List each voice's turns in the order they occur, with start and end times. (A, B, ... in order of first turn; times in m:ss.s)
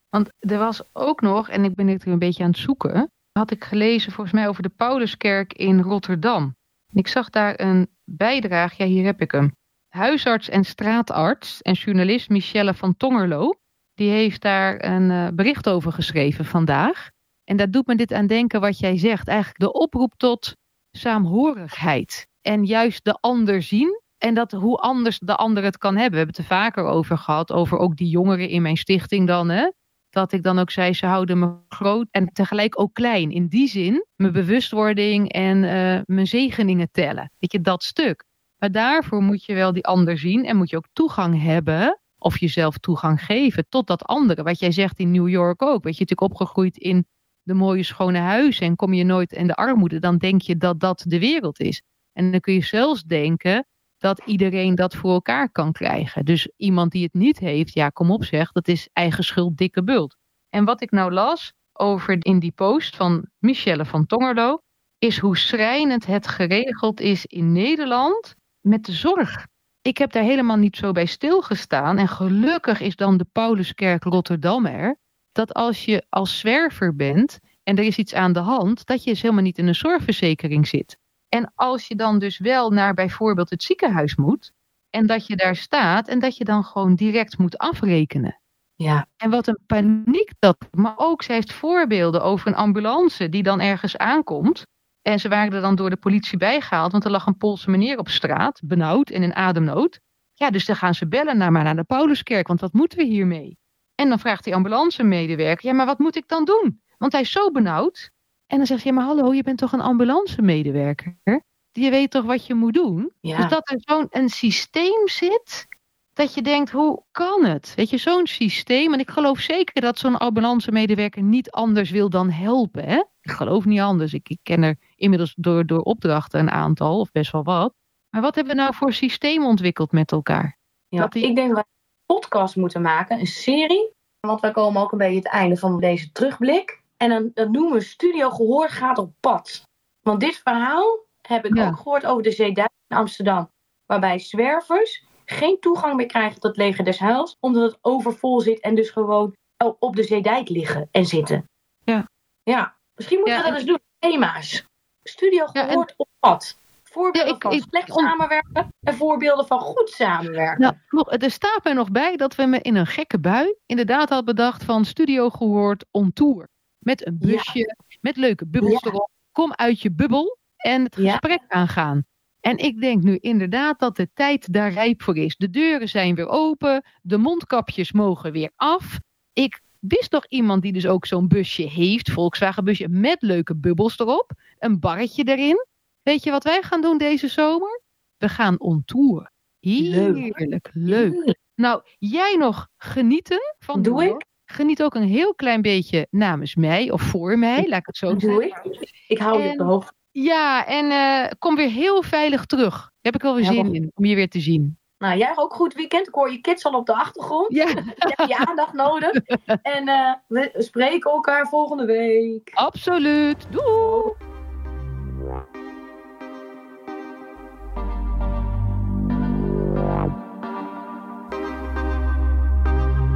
0:00.1-1:28.3 A
1:28.8-1:29.0 B
1:29.2-2:11.3 A
1:53.2-1:53.5 B
2:10.9-2:31.4 B
2:21.5-2:21.8 A
2:32.5-2:40.7 B
2:33.2-2:33.6 A
2:35.5-2:35.8 A
2:37.1-2:38.1 A
2:40.6-3:18.5 A
2:47.2-2:47.5 B
2:48.6-2:48.9 B
2:51.0-2:51.2 B
3:09.8-3:10.3 B
3:10.9-3:11.3 B
3:13.7-3:14.2 B
3:17.6-3:19.9 B
3:19.3-3:24.8 A
3:23.4-3:23.7 B
3:25.0-3:32.5 B
3:27.5-3:28.5 A
3:29.2-3:29.6 A
3:32.6-3:34.1 A